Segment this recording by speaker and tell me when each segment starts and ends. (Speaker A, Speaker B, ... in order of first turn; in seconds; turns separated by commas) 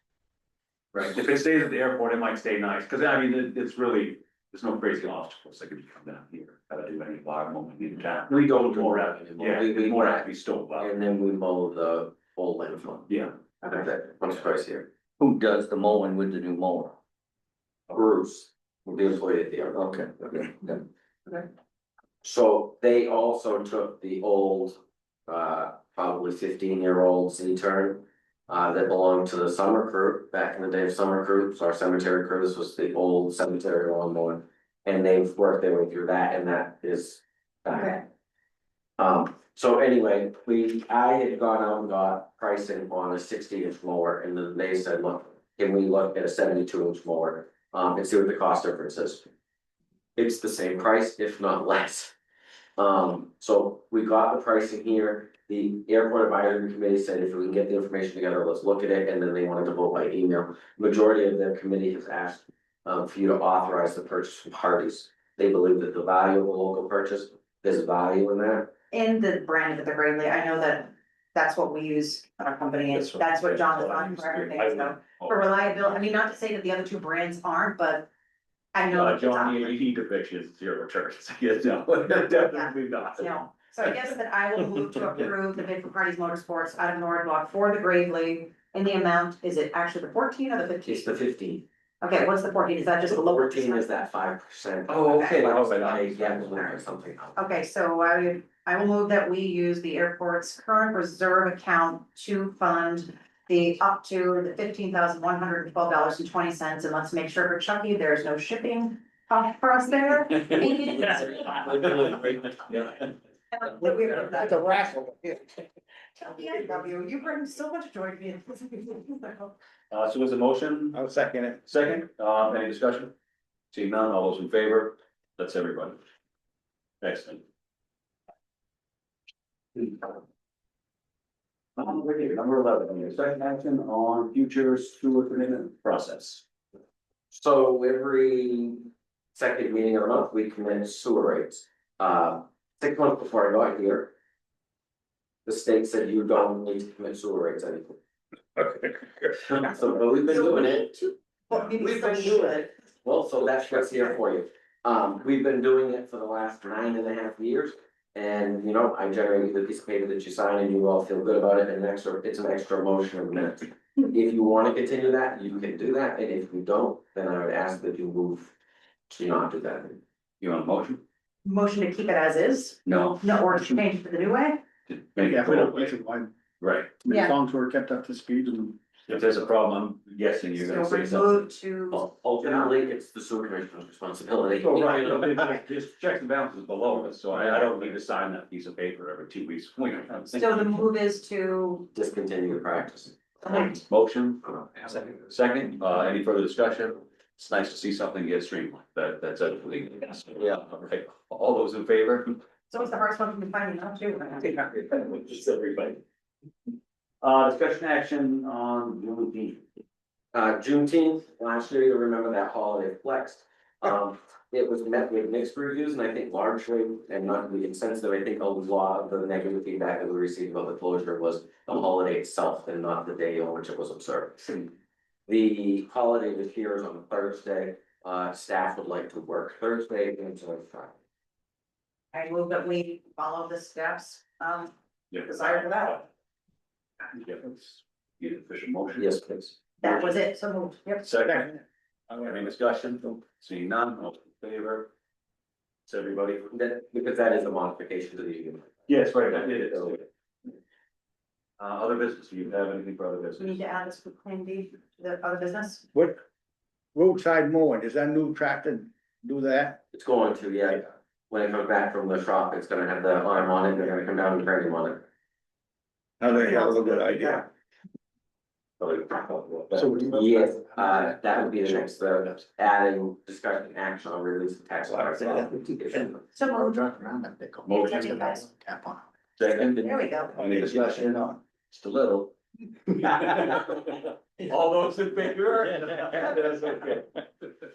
Speaker A: 0.9-1.2, Speaker B: 1.0-10.9, Speaker A: 8.3-13.1, Speaker A: 13.6-14.9, Speaker C: 15.2-17.0, Speaker A: 17.9-20.5, Speaker A: 22.2-38.1, Speaker D: 37.7-38.0, Speaker A: 39.0-49.3, Speaker A: 50.2-52.1, Speaker A: 52.8-68.7, Speaker D: 68.9-78.1, Speaker B: 72.9-76.0, Speaker D: 78.7-79.8, Speaker B: 78.9-83.3, Speaker D: 82.4-91.1, Speaker A: 90.8-91.7, Speaker D: 92.0-94.0, Speaker A: 93.1-97.4, Speaker B: 94.9-96.8, Speaker D: 95.1-95.5, Speaker D: 97.3-111.7, Speaker C: 111.7-112.4, Speaker D: 113.5-114.9, Speaker E: 114.2-115.4, Speaker D: 116.2-119.6, Speaker B: 119.9-121.0, Speaker E: 120.9-121.6, Speaker B: 121.6-123.1, Speaker B: 123.7-126.0, Speaker B: 127.0-127.4, Speaker B: 131.8-136.4, Speaker A: 137.3-144.1, Speaker A: 145.5-147.9, Speaker B: 148.6-149.1, Speaker A: 149.4-150.9, Speaker D: 150.3-152.7, Speaker A: 151.8-168.5, Speaker A: 169.1-170.0, Speaker B: 170.4-171.0, Speaker D: 171.4-174.7, Speaker B: 172.8-173.2, Speaker B: 174.9-176.0, Speaker E: 175.3-176.3, Speaker B: 176.6-177.0, Speaker E: 177.0-178.8, Speaker D: 177.1-177.3, Speaker B: 179.1-182.7, Speaker D: 180.6-182.1, Speaker A: 182.4-185.5, Speaker B: 184.6-190.7, Speaker D: 190.3-191.9, Speaker A: 191.9-193.2, Speaker D: 193.4-193.8, Speaker B: 193.5-202.4, Speaker D: 202.7-204.6, Speaker B: 204.4-206.0, Speaker B: 207.2-209.6, Speaker A: 210.3-224.7, Speaker A: 225.3-230.9, Speaker D: 232.1-234.7, Speaker B: 235.1-236.0, Speaker D: 235.2-236.1, Speaker B: 237.2-239.5, Speaker A: 239.0-239.9, Speaker D: 239.8-241.1, Speaker B: 241.0-241.6, Speaker E: 241.2-241.6, Speaker E: 242.1-242.4, Speaker B: 242.1-244.9, Speaker B: 245.9-246.5, Speaker A: 246.5-248.8, Speaker B: 248.9-250.1, Speaker A: 249.6-250.0, Speaker B: 251.6-253.6, Speaker D: 253.4-255.9, Speaker E: 255.9-256.2, Speaker E: 256.9-259.8, Speaker A: 259.9-265.1, Speaker E: 266.2-267.4, Speaker A: 268.8-276.2, Speaker E: 269.7-271.7, Speaker E: 275.0-275.5, Speaker D: 276.3-276.9, Speaker E: 276.6-279.0, Speaker B: 277.7-278.2, Speaker D: 277.7-278.4, Speaker B: 279.4-281.1, Speaker D: 279.8-280.4, Speaker E: 280.4-281.4, Speaker B: 281.7-282.3, Speaker B: 282.9-287.3